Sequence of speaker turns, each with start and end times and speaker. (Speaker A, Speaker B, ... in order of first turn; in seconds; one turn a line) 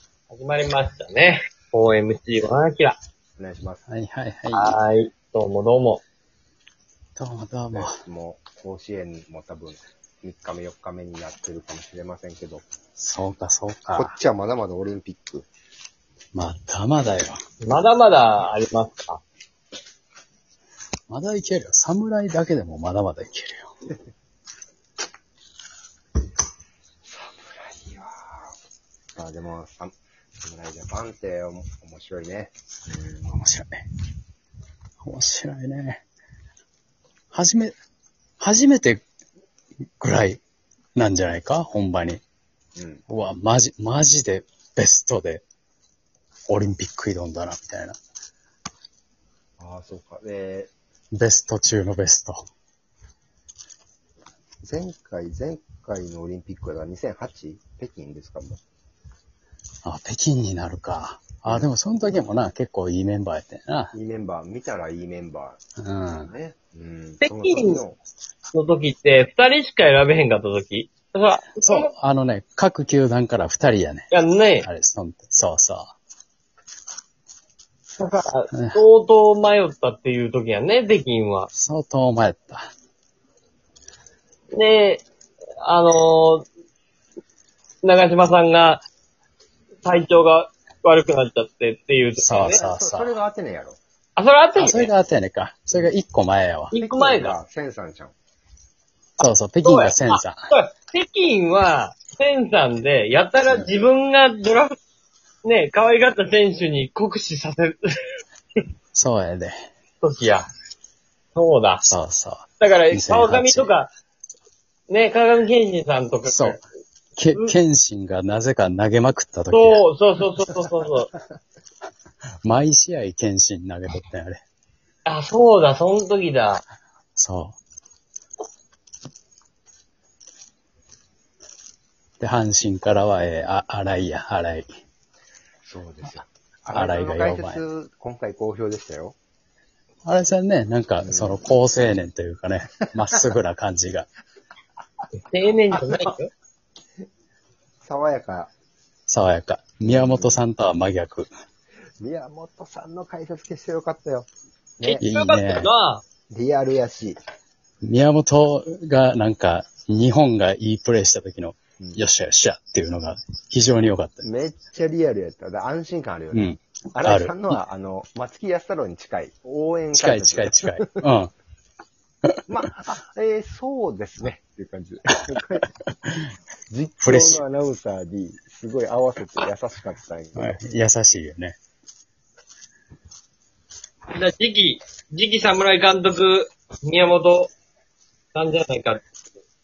Speaker A: 0.3-3.0
Speaker B: 3.4-3.8
Speaker C: 3.9-4.8
Speaker A: 4.5-6.0
Speaker C: 7.2-8.0
Speaker B: 7.7-12.6
Speaker C: 13.0-14.1
Speaker B: 13.9-15.4
Speaker C: 16.3-17.4
Speaker A: 17.6-19.2
Speaker C: 21.1-23.7
Speaker B: 27.0-28.5
Speaker B: 29.1-33.4
Speaker C: 33.3-33.8
Speaker C: 35.0-36.0
Speaker C: 37.3-37.7
Speaker C: 38.4-39.0
Speaker C: 40.0-40.4
Speaker C: 41.0-42.2
Speaker B: 42.8-43.0
Speaker C: 43.1-45.4
Speaker C: 46.5-48.0
Speaker B: 49.6-50.7
Speaker C: 51.1-52.4
Speaker B: 54.6-58.6
Speaker C: 59.8-63.9
Speaker B: 61.5-61.7
Speaker B: 63.9-65.6
Speaker C: 65.8-66.3
Speaker B: 66.2-68.0
Speaker A: 67.2-67.8
Speaker A: 68.5-71.9
Speaker C: 71.6-74.1
Speaker A: 74.1-74.7
Speaker C: 74.6-75.9
Speaker A: 78.0-81.5
Speaker C: 78.5-78.8
Speaker C: 81.5-82.7
Speaker A: 84.5-85.0
Speaker A: 85.6-86.4
Speaker A: 87.8-88.8
Speaker A: 89.8-92.6
Speaker C: 92.2-93.1
Speaker B: 92.4-93.8
Speaker A: 94.2-94.9
Speaker C: 94.5-96.7
Speaker A: 96.7-97.4
Speaker B: 96.7-98.1
Speaker C: 99.2-100.4
Speaker A: 99.6-104.8
Speaker A: 105.4-107.9
Speaker C: 108.9-109.5
Speaker A: 110.0-110.5
Speaker A: 111.3-112.0
Speaker C: 111.9-113.7
Speaker A: 112.6-113.9
Speaker A: 114.9-116.6
Speaker C: 116.2-116.6
Speaker C: 117.2-119.8
Speaker A: 119.5-121.1
Speaker C: 122.4-124.4
Speaker A: 125.0-126.6
Speaker C: 127.2-127.6
Speaker C: 132.2-134.7
Speaker B: 135.6-139.2
Speaker C: 136.7-137.6
Speaker C: 140.0-144.1
Speaker B: 141.0-141.4
Speaker A: 145.2-146.3
Speaker B: 147.8-148.5
Speaker C: 149.1-151.3
Speaker B: 149.8-150.4
Speaker B: 152.0-154.3
Speaker A: 154.8-156.0
Speaker C: 155.0-155.7
Speaker B: 156.3-157.2
Speaker C: 157.8-164.3
Speaker B: 164.2-170.8
Speaker C: 166.3-167.6
Speaker C: 169.9-171.3
Speaker B: 172.5-175.7
Speaker B: 176.7-180.6
Speaker C: 177.0-177.4
Speaker C: 180.3-181.6
Speaker A: 184.1-187.5
Speaker A: 188.3-189.0